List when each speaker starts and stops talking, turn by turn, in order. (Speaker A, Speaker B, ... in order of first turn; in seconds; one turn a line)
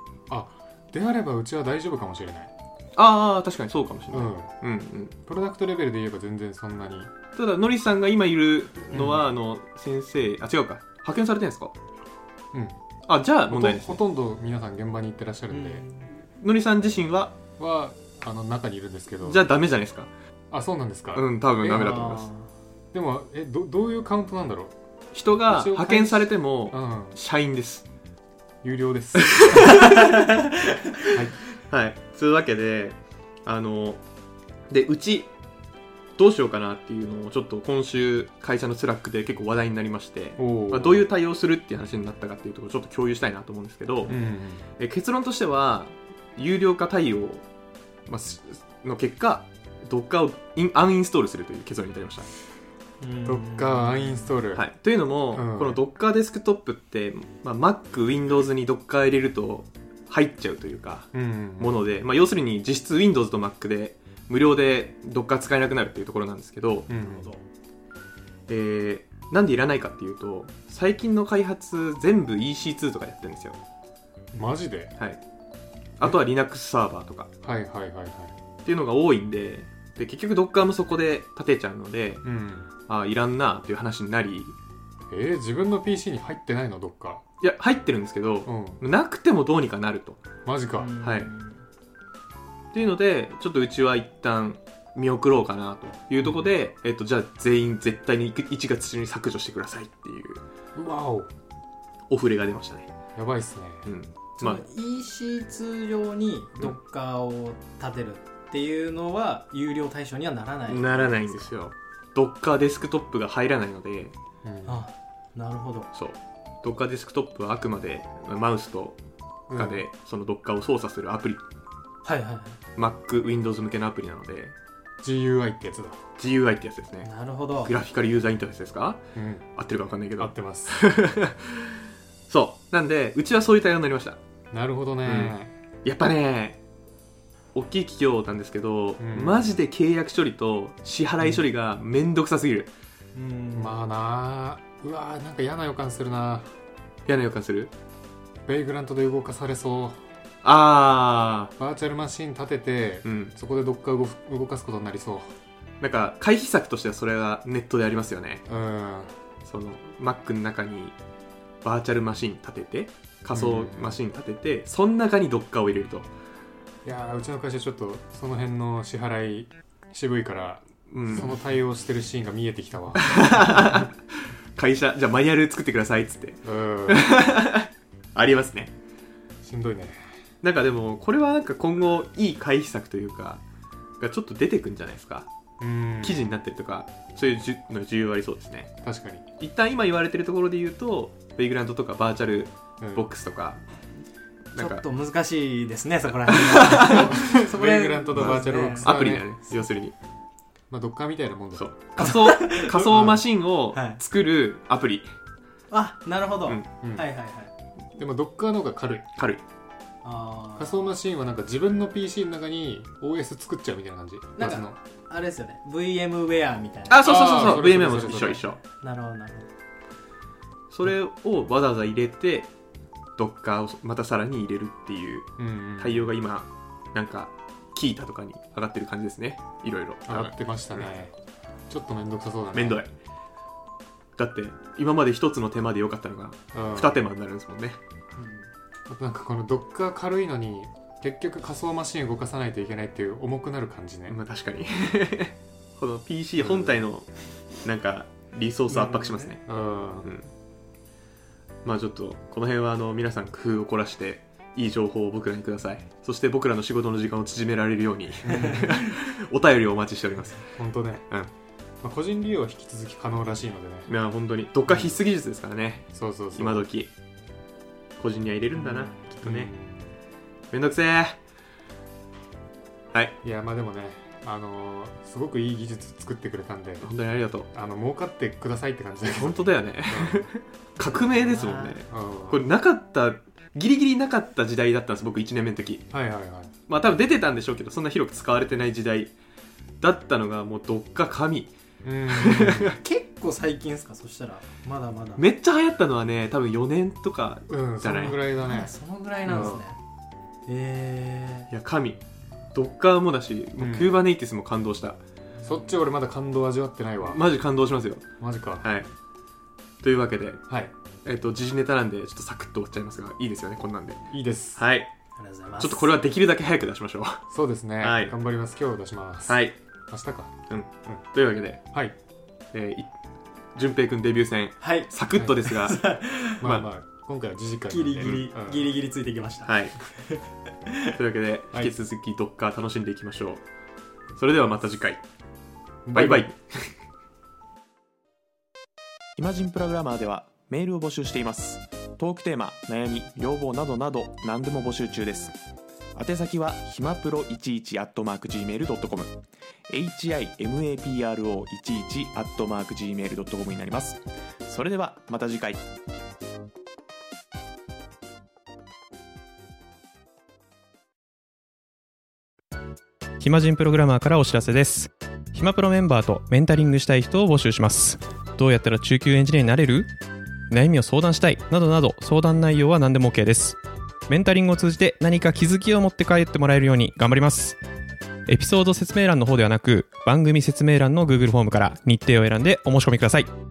Speaker A: 0.3-2.5
Speaker B: 3.0-5.1
Speaker A: 4.1-4.5
Speaker A: 5.2-7.1
Speaker B: 7.3-11.7
Speaker A: 8.9-9.2
Speaker B: 13.1-14.0
Speaker A: 13.5-15.8
Speaker C: 15.5-16.1
Speaker B: 16.4-17.3
Speaker A: 17.6-19.4
Speaker B: 19.2-20.1
Speaker A: 20.5-21.3
Speaker B: 21.1-22.3
Speaker C: 21.6-22.5
Speaker A: 22.9-24.8
Speaker B: 25.1-27.9
Speaker A: 25.5-27.2
Speaker A: 28.6-29.8
Speaker B: 29.3-30.0
Speaker C: 29.8-30.3
Speaker B: 31.6-34.0
Speaker B: 34.7-35.3
Speaker B: 36.2-44.1
Speaker A: 40.4-41.1
Speaker A: 44.1-44.6
Speaker B: 44.8-47.4
Speaker B: 48.1-52.3
Speaker C: 53.0-54.3
Speaker A: 53.2-54.7
Speaker B: 54.5-66.9
Speaker A: 55.3-55.8
Speaker A: 61.1-61.8
Speaker A: 66.9-67.3
Speaker C: 67.0-67.4
Speaker B: 68.5-73.6
Speaker A: 74.3-74.9
Speaker B: 76.0-77.3
Speaker A: 77.4-78.3
Speaker B: 78.6-82.2
Speaker A: 82.2-82.7
Speaker B: 82.9-84.5
Speaker A: 85.1-87.2
Speaker B: 87.4-90.2
Speaker A: 88.4-88.8
Speaker A: 90.4-90.9
Speaker C: 90.8-91.6
Speaker B: 91.0-91.3
Speaker B: 92.7-100.4
Speaker A: 96.2-96.5
Speaker A: 100.8-101.3
Speaker B: 102.1-102.9
Speaker A: 103.2-103.9
Speaker B: 103.8-104.6
Speaker C: 104.4-111.5
Speaker B: 110.7-114.1
Speaker A: 114.4-114.9
Speaker C: 114.7-115.9
Speaker B: 115.9-119.0
Speaker A: 119.5-119.8
Speaker B: 119.5-121.4
Speaker C: 122.0-122.6
Speaker B: 122.8-124.5
Speaker A: 125.0-126.0
Speaker B: 126.2-127.1
Speaker C: 127.0-127.7
Speaker B: 127.6-129.0
Speaker A: 129.1-129.4
Speaker B: 129.6-131.7
Speaker A: 130.2-130.8
Speaker B: 132.3-134.2
Speaker A: 134.5-135.5
Speaker B: 135.1-135.3
Speaker B: 135.8-136.6
Speaker B: 137.5-142.7
Speaker A: 139.0-139.4
Speaker C: 143.1-143.8
Speaker A: 143.5-146.5
Speaker B: 147.1-147.7
Speaker A: 148.4-150.0
Speaker B: 150.4-151.5
Speaker A: 151.6-155.3
Speaker B: 153.0-153.3
Speaker B: 155.8-158.4
Speaker A: 158.5-159.1
Speaker B: 159.4-160.9
Speaker B: 161.6-166.1
Speaker A: 163.3-164.0
Speaker A: 166.8-173.8
Speaker B: 170.9-171.3
Speaker B: 173.0-174.0
Speaker B: 174.6-178.7
Speaker A: 176.4-177.1
Speaker A: 179.4-180.0
Speaker B: 180.4-183.4
Speaker B: 184.0-185.3
Speaker A: 185.6-186.2
Speaker B: 186.0-188.7
Speaker A: 188.8-189.2
Speaker B: 189.4-193.6
Speaker A: 192.8-193.1
Speaker B: 194.5-194.8
Speaker C: 194.6-198.9
Speaker B: 196.2-197.1
Speaker A: 196.6-199.6
Speaker B: 198.1-199.9
Speaker A: 200.7-201.7
Speaker B: 201.6-205.1
Speaker C: 202.0-202.9
Speaker A: 202.9-203.2
Speaker C: 203.7-204.0
Speaker C: 205.7-207.5
Speaker A: 206.8-207.1
Speaker A: 207.9-209.1
Speaker B: 209.2-209.4
Speaker C: 210.0-210.9
Speaker A: 210.6-214.8
Speaker C: 214.4-217.6
Speaker B: 216.9-218.6
Speaker A: 217.0-218.4
Speaker C: 218.7-219.5
Speaker B: 220.7-222.5
Speaker B: 223.2-230.9
Speaker A: 225.4-226.1
Speaker A: 230.1-231.1
Speaker A: 231.7-232.8
Speaker B: 232.5-232.9
Speaker B: 234.2-237.8
Speaker A: 236.5-237.0
Speaker C: 238.2-238.5
Speaker A: 238.9-244.2
Speaker B: 244.1-247.1
Speaker A: 246.4-246.8
Speaker B: 247.6-249.4
Speaker C: 248.7-249.3
Speaker A: 249.5-250.1
Speaker B: 250.0-250.3
Speaker B: 251.6-260.5
Speaker A: 258.2-258.7
Speaker A: 260.5-261.1
Speaker A: 261.8-263.9
Speaker B: 263.9-266.9
Speaker A: 264.7-264.9
Speaker A: 265.9-266.7
Speaker B: 268.0-269.5
Speaker A: 269.2-269.9
Speaker B: 270.5-271.2
Speaker A: 273.2-276.9
Speaker B: 276.8-277.5
Speaker A: 277.5-280.3
Speaker B: 279.1-285.9
Speaker A: 281.0-282.4
Speaker C: 281.3-281.6
Speaker A: 285.9-286.5
Speaker B: 286.7-289.1
Speaker B: 289.8-291.5
Speaker A: 291.8-292.7
Speaker B: 292.1-292.6
Speaker C: 292.8-295.2
Speaker B: 295.2-298.2
Speaker A: 297.5-298.7
Speaker C: 298.4-299.8
Speaker A: 299.2-299.6
Speaker B: 299.3-299.6
Speaker C: 300.4-301.5
Speaker B: 301.5-302.0
Speaker B: 302.5-305.0
Speaker A: 303.6-304.0
Speaker A: 305.4-307.3
Speaker B: 307.1-308.1
Speaker A: 308.2-308.7
Speaker B: 308.6-308.9
Speaker B: 309.8-310.4
Speaker A: 310.5-310.7
Speaker B: 311.1-314.9
Speaker A: 314.1-314.6
Speaker C: 315.2-315.9
Speaker B: 315.6-317.2
Speaker A: 317.3-321.0
Speaker B: 317.8-318.1
Speaker B: 319.3-319.6
Speaker B: 320.5-321.6
Speaker B: 322.5-322.9
Speaker B: 323.6-325.8
Speaker C: 324.6-326.4
Speaker A: 326.4-328.7
Speaker C: 327.7-330.8
Speaker B: 328.0-328.2
Speaker B: 329.4-329.7
Speaker B: 330.9-333.4
Speaker B: 334.1-335.0
Speaker A: 335.9-336.3
Speaker B: 335.9-336.7
Speaker D: 339.2-345.4
Speaker D: 345.9-349.2
Speaker D: 349.7-355.6
Speaker E: 363.2-369.9
Speaker E: 370.5-377.6
Speaker E: 378.3-383.3